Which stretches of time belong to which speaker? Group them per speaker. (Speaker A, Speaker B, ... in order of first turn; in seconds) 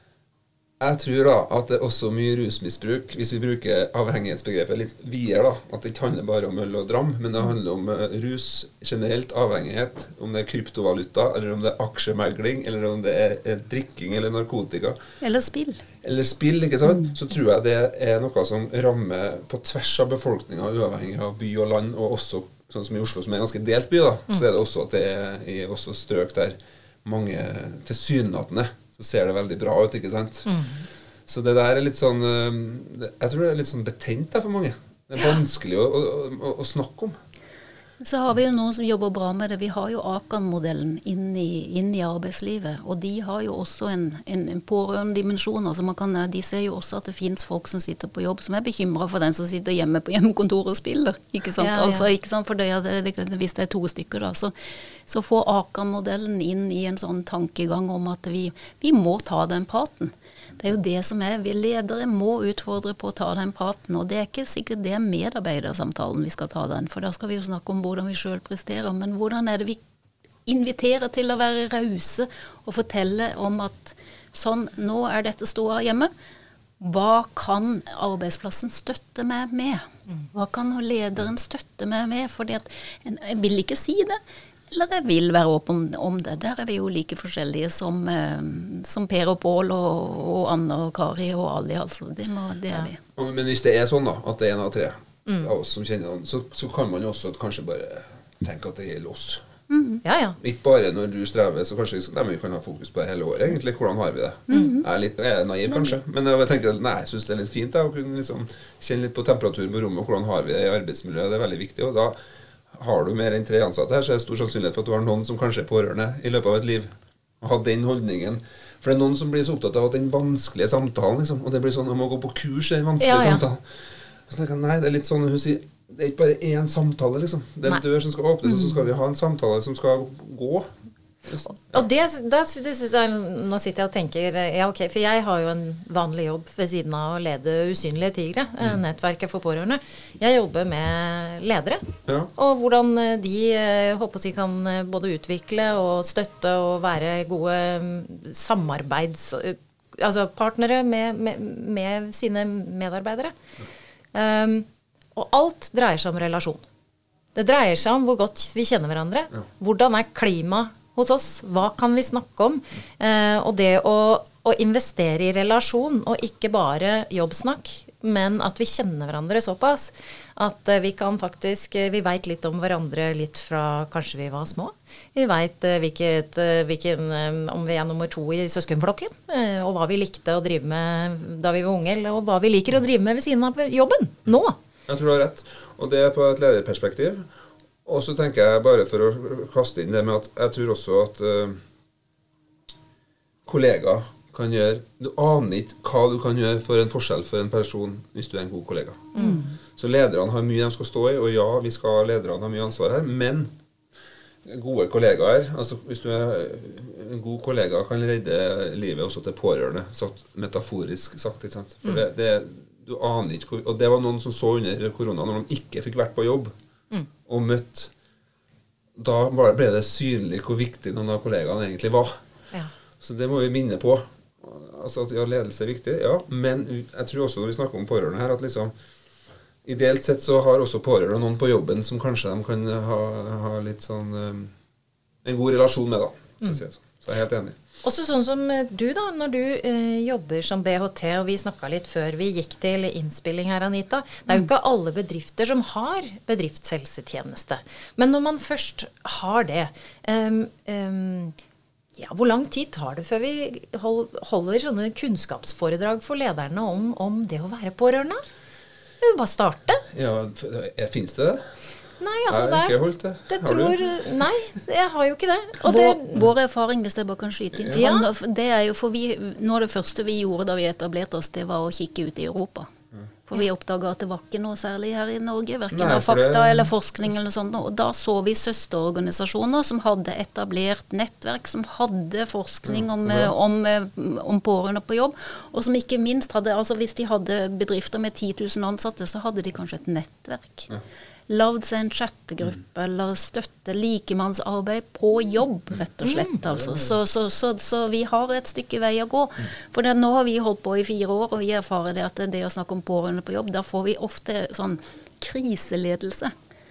Speaker A: 0.8-15.0, 16.0-30.6, 31.3-37.2, 93.2-99.4, 100.4-112.2, 112.7-123.7, 124.3-130.7, 131.2-131.8, 142.1-142.3, 184.9-187.3, 187.8-191.6, 193.5-203.5, 204.4-216.5, 217.3-217.9, 219.0-222.1, 223.0-228.7, 229.7-234.5, 235.2-237.6, 259.9-261.5, 262.3-263.9, 275.7-276.7, 282.7-283.3, 296.5-296.9
Speaker B: 15.2-15.8, 38.0-54.5, 55.1-69.8, 70.5-76.1, 76.8-84.2, 84.7-93.0, 99.7-100.0, 104.5-104.9, 265.6-272.7, 273.3-290.7, 291.3-306.3
Speaker C: 30.5-30.9, 51.6-52.1, 95.3-95.5, 100.0-100.4, 104.5-104.8, 123.0-123.5, 131.4-153.4, 154.1-156.7, 157.3-184.6, 199.2-199.5, 237.8-251.4, 252.0-258.2, 259.0-259.9, 262.0-266.0, 267.7-268.1, 296.0-296.4